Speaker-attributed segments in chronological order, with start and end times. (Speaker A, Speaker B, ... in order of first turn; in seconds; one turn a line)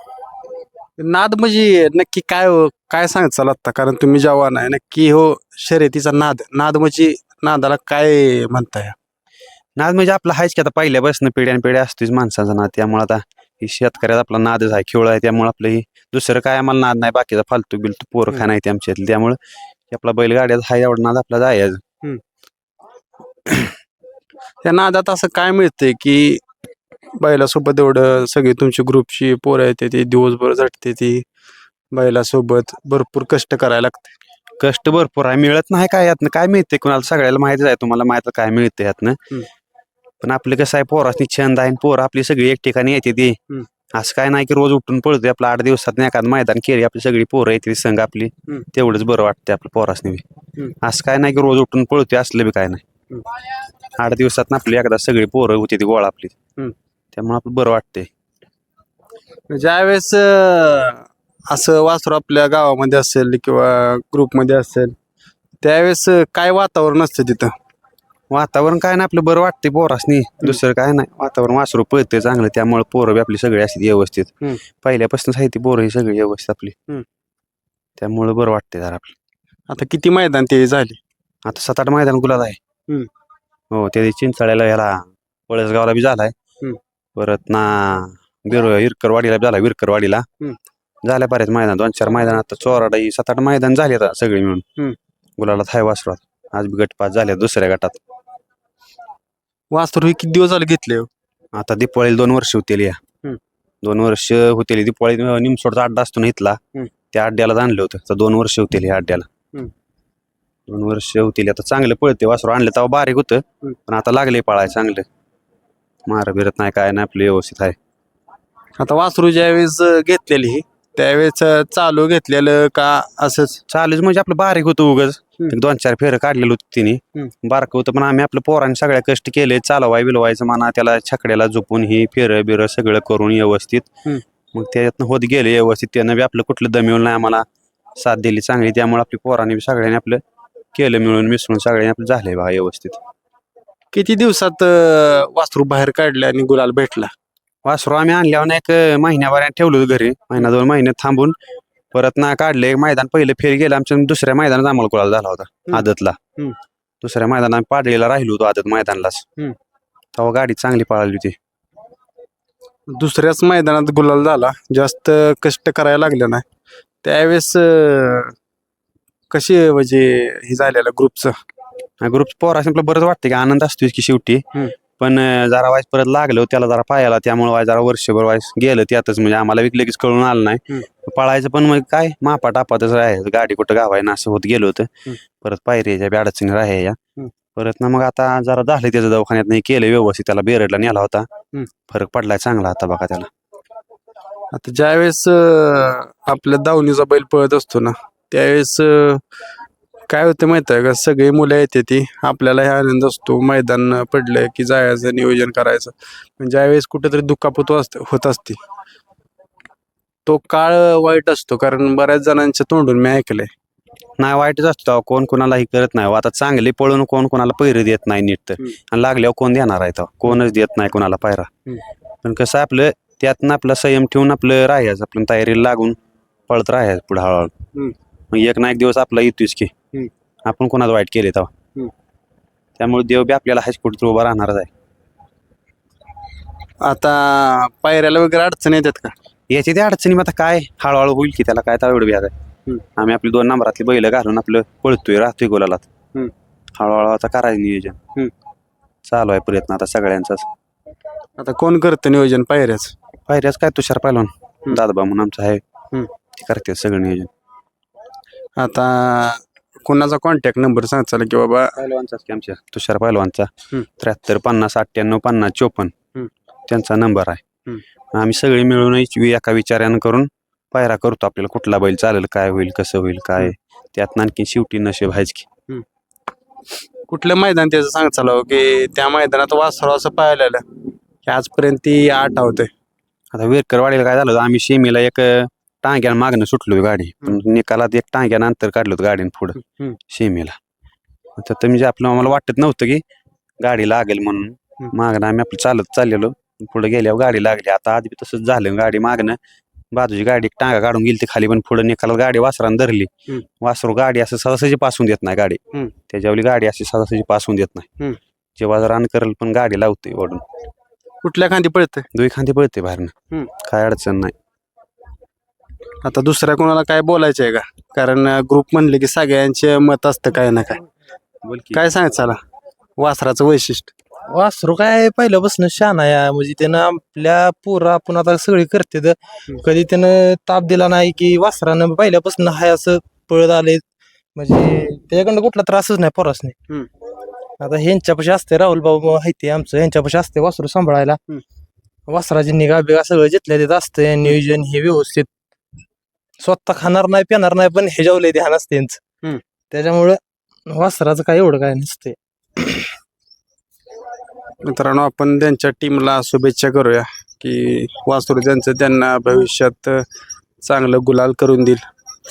Speaker A: 1.0-8.9
Speaker B: 9.8-19.4
Speaker B: 19.9-21.8
Speaker A: 24.6-26.4
Speaker A: 27.2-31.2
Speaker A: 31.9-34.1
Speaker B: 34.6-39.2
Speaker B: 40.2-43.4
Speaker B: 43.9-50.2
Speaker B: 50.8-52.8
Speaker B: 54.0-56.3
Speaker B: 57.1-58.1
Speaker A: 59.5-64.9
Speaker A: 65.6-67.5
Speaker B: 68.3-76.7
Speaker B: 78.0-79.1
Speaker A: 79.7-81.0
Speaker B: 81.4-82.6
Speaker B: 83.7-86.3
Speaker B: 87.2-90.2
Speaker B: 91.0-94.6
Speaker B: 95.4-98.0
Speaker A: 99.7-101.1
Speaker B: 101.5-103.0
Speaker B: 103.8-106.6
Speaker B: 107.1-109.3
Speaker B: 110.7-115.0
Speaker B: 116.1-117.7
Speaker A: 118.8-123.6
Speaker B: 123.7-133.9
Speaker B: 134.5-137.4
Speaker B: 138.0-140.2
Speaker B: 140.7-143.0
Speaker A: 143.9-147.1
Speaker B: 147.6-151.3
Speaker B: 151.9-156.2
Speaker B: 157.0-159.2
Speaker B: 160.1-161.3
Speaker A: 162.9-166.4
Speaker A: 167.0-168.3
Speaker A: 169.3-171.3
Speaker B: 172.0-184.9
Speaker B: 185.4-187.0
Speaker B: 187.6-191.3
Speaker B: 191.9-193.3
Speaker A: 194.5-199.2
Speaker A: 200.1-208.6
Speaker A: 210.2-213.5
Speaker B: 214.2-221.5
Speaker B: 222.2-225.9
Speaker B: 226.5-227.5
Speaker B: 228.3-229.7
Speaker B: 230.4-231.5
Speaker B: 232.8-234.7
Speaker A: 236.8-239.1
Speaker B: 239.5-242.3
Speaker B: 242.9-245.9
Speaker B: 246.8-248.0
Speaker B: 249.1-250.5
Speaker A: 251.4-252.9
Speaker B: 253.3-255.6
Speaker B: 256.3-257.3
Speaker A: 258.6-261.7
Speaker B: 261.8-265.9
Speaker B: 266.7-267.4
Speaker B: 268.1-275.4
Speaker A: 277.1-280.6
Speaker A: 281.2-282.7
Speaker B: 283.3-289.6
Speaker A: 289.6-290.0
Speaker B: 290.1-290.6
Speaker B: 291.4-293.0
Speaker B: 293.6-299.4
Speaker B: 299.9-303.1
Speaker B: 303.6-307.9
Speaker B: 308.6-310.4
Speaker A: 311.2-312.1
Speaker B: 312.1-314.3
Speaker A: 316.0-320.8
Speaker B: 321.4-321.8
Speaker A: 321.7-322.4
Speaker A: 323.0-323.9
Speaker C: 324.3-333.8
Speaker C: 334.4-336.5
Speaker C: 337.6-341.2
Speaker C: 342.1-345.3
Speaker C: 346.4-349.0
Speaker C: 349.7-352.9
Speaker A: 354.6-360.0
Speaker A: 360.6-361.8